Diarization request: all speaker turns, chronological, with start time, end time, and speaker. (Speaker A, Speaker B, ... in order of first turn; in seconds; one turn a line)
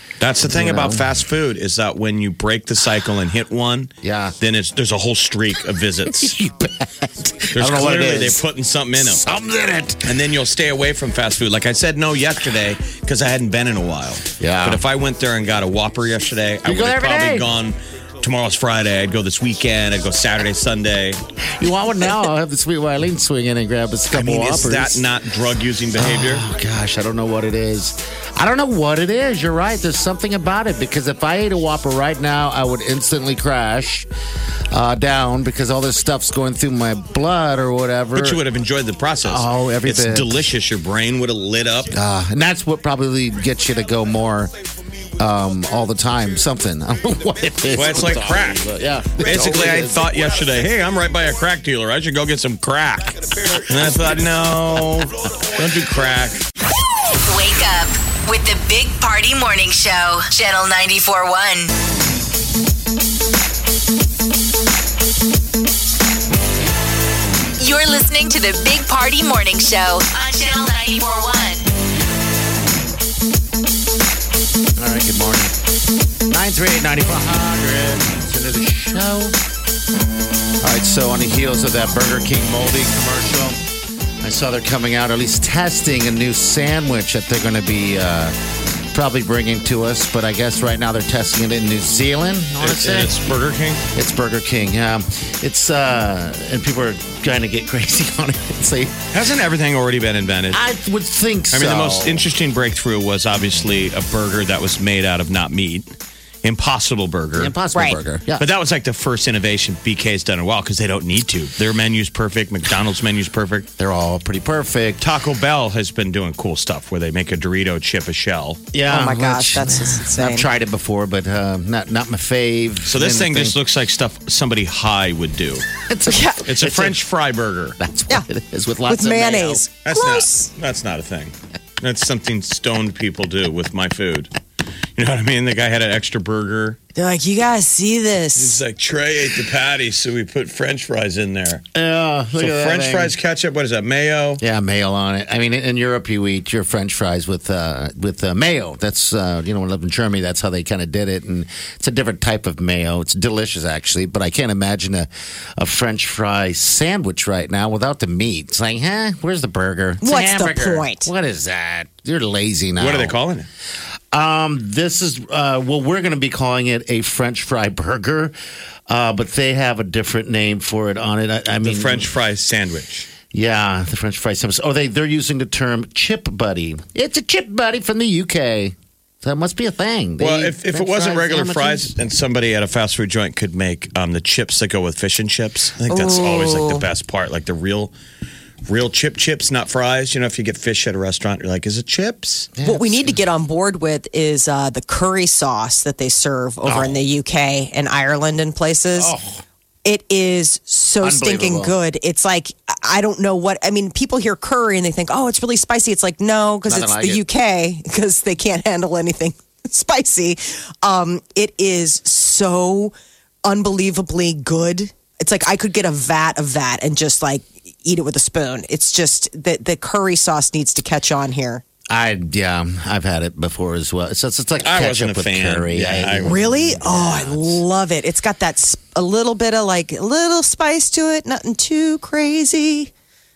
Speaker A: 0.2-6.3
Speaker B: 0.4-1.1
Speaker B: 4.0-4.3
Speaker B: 6.1-8.4
Speaker A: 7.5-9.2
Speaker B: 9.0-10.1
Speaker A: 10.0-21.2
Speaker B: 14.4-14.8
Speaker B: 16.6-17.5
Speaker B: 21.5-25.0
Speaker A: 24.1-26.4
Speaker B: 25.9-34.1
Speaker B: 34.7-38.4
Speaker A: 38.1-41.9
Speaker B: 39.2-40.4
Speaker B: 41.9-44.5
Speaker B: 45.2-50.2
Speaker A: 47.7-48.7
Speaker A: 49.2-56.4
Speaker C: 57.3-61.7
Speaker C: 67.6-71.7
Speaker B: 74.8-75.5
Speaker B: 76.3-79.4
Speaker B: 80.6-83.6
Speaker B: 84.2-88.3
Speaker B: 88.9-93.2
Speaker A: 92.6-93.8
Speaker B: 93.9-99.0
Speaker A: 99.1-100.6
Speaker B: 100.5-102.2
Speaker A: 101.5-105.9
Speaker A: 106.4-107.5
Speaker B: 107.3-108.5
Speaker D: 107.7-108.0
Speaker A: 108.4-113.7
Speaker B: 113.8-115.0
Speaker A: 115.0-118.6
Speaker B: 118.7-123.6
Speaker D: 118.9-120.5
Speaker A: 122.9-125.6
Speaker B: 125.9-127.0
Speaker D: 126.1-126.4
Speaker A: 126.4-127.8
Speaker B: 127.8-129.6
Speaker D: 128.9-130.5
Speaker A: 129.8-134.3
Speaker A: 134.9-136.8
Speaker D: 136.9-138.6
Speaker A: 138.3-141.6
Speaker B: 141.7-143.1
Speaker A: 142.4-144.4
Speaker B: 144.4-163.2
Speaker D: 160.0-161.1
Speaker A: 162.8-163.5
Speaker B: 164.1-168.3
Speaker B: 168.9-172.1
Speaker A: 171.6-173.1
Speaker B: 173.3-181.9
Speaker A: 180.2-187.9
Speaker D: 185.9-186.8
Speaker A: 188.6-192.5
Speaker B: 192.6-193.2
Speaker D: 192.6-199.1
Speaker B: 196.6-197.0
Speaker B: 198.9-199.4
Speaker D: 199.8-212.9
Speaker B: 201.0-201.8
Speaker B: 206.7-207.2
Speaker D: 213.4-221.6
Speaker B: 221.9-227.3
Speaker A: 224.6-226.5
Speaker D: 226.2-232.9